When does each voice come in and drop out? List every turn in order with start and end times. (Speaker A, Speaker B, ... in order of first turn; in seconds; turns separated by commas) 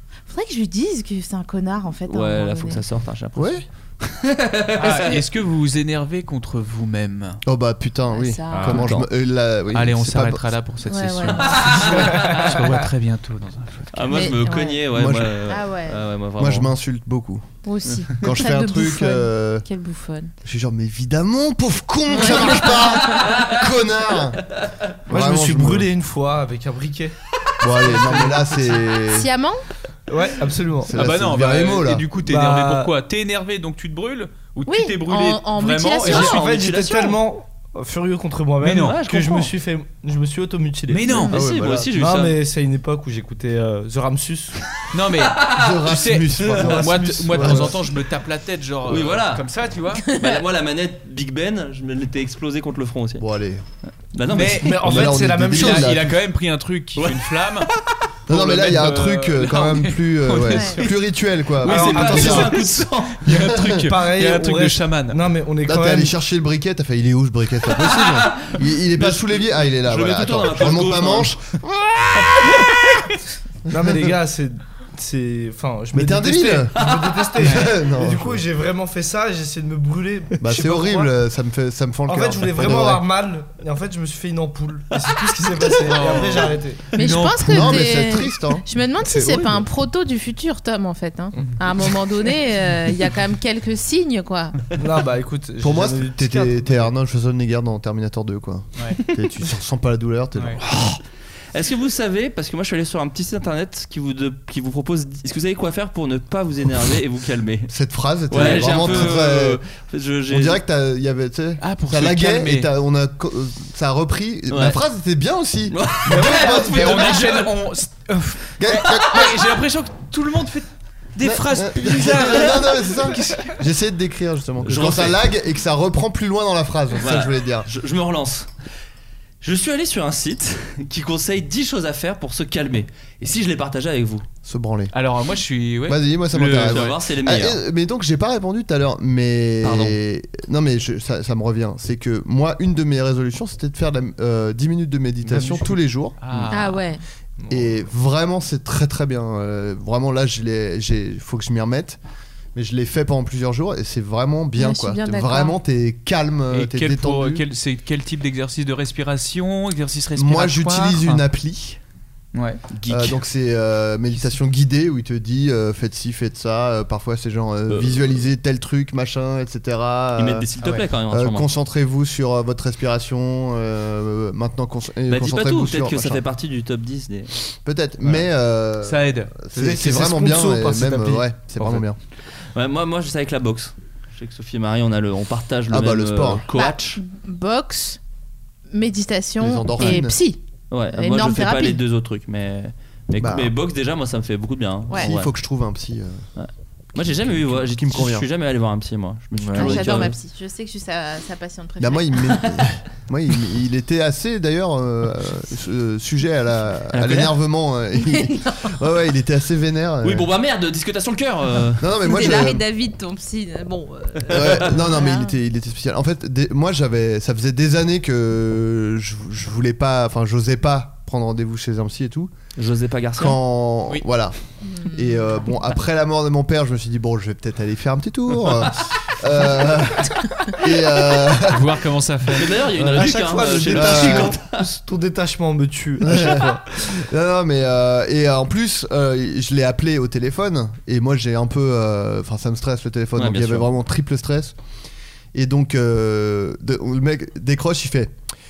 Speaker A: 0.3-2.8, Speaker B: 2.1-5.2, Speaker C: 3.4-3.6, Speaker D: 4.8-7.4, Speaker C: 7.5-10.4, Speaker A: 8.1-8.8, Speaker B: 8.5-9.1, Speaker D: 9.7-14.2, Speaker A: 10.9-11.6, Speaker B: 11.4-12.6, Speaker B: 13.9-16.7, Speaker A: 14.1-14.8, Speaker C: 14.9-15.3, Speaker A: 15.5-16.0, Speaker C: 16.4-17.5, Speaker A: 17.6-20.3, Speaker C: 18.1-19.6, Speaker C: 20.4-24.4, Speaker A: 22.1-23.2, Speaker B: 23.1-23.6, Speaker C: 25.1-25.9, Speaker E: 25.1-27.1, Speaker C: 27.6-29.3, Speaker E: 27.8-28.5, Speaker A: 29.1-29.6, Speaker E: 30.1-30.9, Speaker C: 30.9-32.1, Speaker D: 30.9-36.3, Speaker E: 32.2-32.9, Speaker A: 34.7-36.4, Speaker B: 36.0-37.2, Speaker E: 36.1-41.2, Speaker D: 38.6-39.0, Speaker B: 38.8-39.5, Speaker D: 40.9-41.3, Speaker A: 41.1-41.4, Speaker B: 41.3-42.4, Speaker C: 41.3-41.9, Speaker E: 41.9-44.7, Speaker D: 44.9-50.0, Speaker B: 45.2-45.9, Speaker C: 45.5-47.7, Speaker E: 46.3-47.8, Speaker B: 48.9-49.5, Speaker B: 50.1-53.3, Speaker C: 53.2-53.6, Speaker B: 54.1-55.1, Speaker D: 54.3-54.8, Speaker E: 54.5-56.1, Speaker C: 54.8-56.1, Speaker D: 55.3-57.7, Speaker B: 57.0-57.8, Speaker D: 58.3-60.9, Speaker C: 58.3-62.6, Speaker A: 60.5-60.8, Speaker B: 61.6-63.2, Speaker E: 61.6-62.6, Speaker D: 61.7-65.2, Speaker C: 63.2-63.9, Speaker E: 63.7-66.1, Speaker C: 65.6-72.6, Speaker B: 67.8-71.3, Speaker B: 72.5-73.1, Speaker E: 73.7-81.1, Speaker C: 75.9-76.8, Speaker B: 76.8-77.3, Speaker D: 77.4-77.7, Speaker C: 77.4-78.4, Speaker C: 80.4-83.0, Speaker E: 82.1-86.9, Speaker D: 85.8-87.8, Speaker A: 86.9-94.6, Speaker C: 87.4-88.6, Speaker E: 89.2-89.6, Speaker E: 94.8-96.9, Speaker C: 95.6-100.6, Speaker B: 100.6-101.0, Speaker B: 101.5-107.7, Speaker C: 107.7-109.6, Speaker B: 108.3-110.6, Speaker D: 108.4-108.8, Speaker C: 110.3-117.2, Speaker D: 111.6-112.7, Speaker B: 114.5-114.8, Speaker B: 115.7-117.5, Speaker D: 116.2-123.5, Speaker C: 118.6-119.5, Speaker C: 121.2-127.7, Speaker B: 124.6-125.2, Speaker B: 127.0-128.5, Speaker B: 129.4-134.2, Speaker C: 134.4-134.9, Speaker D: 134.9-136.9, Speaker C: 135.9-146.5, Speaker B: 136.6-137.6, Speaker B: 139.6-140.0, Speaker E: 145.2-145.8, Speaker D: 146.2-146.8, Speaker A: 146.5-147.0, Speaker E: 147.4-147.7, Speaker C: 147.5-152.0, Speaker C: 152.5-157.4, Speaker A: 154.6-155.6, Speaker D: 156.5-161.2, Speaker C: 160.2-161.8, Speaker D: 162.3-163.2, Speaker C: 162.9-176.2, Speaker B: 167.7-168.0, Speaker B: 170.2-171.5, Speaker B: 175.1-177.3, Speaker C: 177.6-182.0, Speaker D: 178.8-179.4, Speaker E: 179.5-181.8, Speaker B: 182.5-187.0, Speaker C: 185.7-186.4, Speaker A: 186.5-188.0, Speaker A: 188.7-190.4, Speaker C: 189.4-190.2, Speaker B: 190.7-195.3, Speaker A: 190.9-191.8, Speaker C: 193.2-193.5, Speaker C: 194.9-196.2, Speaker B: 196.4-200.2, Speaker C: 197.0-198.3, Speaker C: 199.3-200.1, Speaker A: 199.5-202.3, Speaker C: 201.8-210.3, Speaker B: 206.9-207.3, Speaker B: 210.0-212.3, Speaker C: 211.8-212.6, Speaker A: 212.0-215.3, Speaker C: 214.3-222.3, Speaker B: 214.3-214.7, Speaker B: 222.6-223.4, Speaker C: 223.2-231.8, Speaker A: 224.7-225.2, Speaker D: 231.4-232.6, Speaker B: 232.3-234.7, Speaker E: 232.7-236.8, Speaker C: 233.7-234.3, Speaker C: 236.0-244.6, Speaker B: 243.2-243.7, Speaker C: 245.3-248.1